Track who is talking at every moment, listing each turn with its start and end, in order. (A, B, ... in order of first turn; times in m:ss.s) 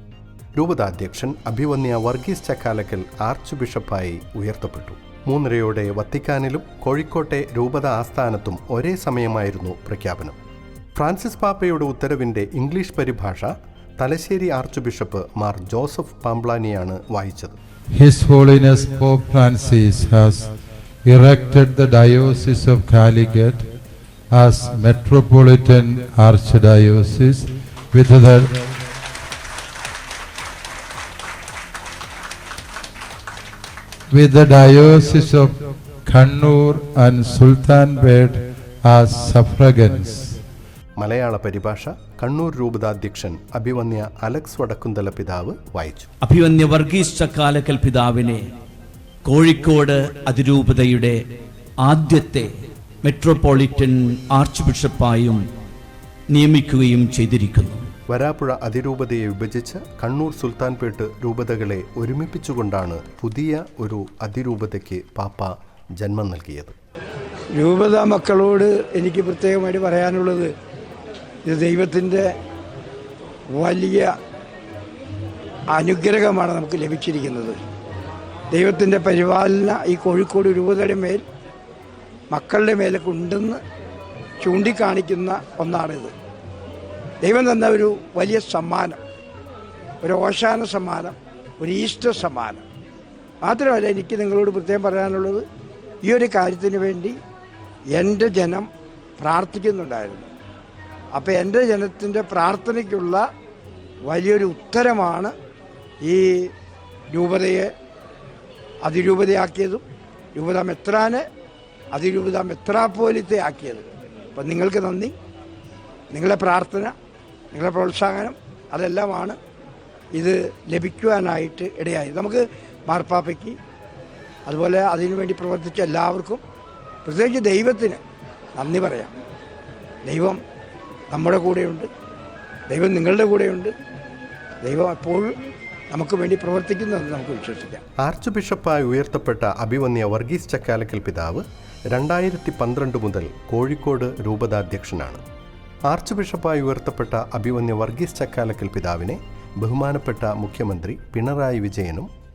0:00.6-0:10.4 A
0:10.9-0:17.6 A
0:17.9-0:20.5 B
0:21.0-0:23.7 B
0:24.3-0:28.6 B
0:34.1-0:40.4 B
0:41.0-0:46.1 A
0:46.2-0:48.4 C
0:49.2-0:51.2 C
0:51.8-0:52.5 C
0:53.0-0:55.4 C
0:56.3-0:57.8 C
0:58.1-1:06.7 A
1:07.5-1:10.5 D
1:11.4-1:12.3 D
1:13.5-1:14.1 D
1:15.7-1:17.6 D
1:18.5-1:21.2 D
1:22.3-1:23.6 D
1:24.4-1:26.1 D
1:27.2-1:29.0 D
1:30.0-1:32.6 D
1:33.4-1:35.4 D
1:36.0-1:37.2 D
1:37.9-1:38.7 D
1:39.2-1:40.3 D
1:41.1-1:43.2 D
1:44.0-1:45.3 D
1:46.0-1:46.5 D
1:47.1-1:47.7 D
1:48.8-1:49.8 D
1:50.3-1:51.2 D
1:51.9-1:55.1 D
1:56.1-1:56.9 D
1:57.5-1:59.4 D
2:00.1-2:03.6 D
2:04.4-2:06.4 D
2:07.0-2:08.0 D
2:08.5-2:09.1 D
2:10.0-2:10.4 D
2:11.1-2:11.9 D
2:12.7-2:13.7 D
2:14.6-2:15.4 D
2:15.9-2:17.8 D
2:18.0-2:25.2 A
2:25.9-2:32.1 A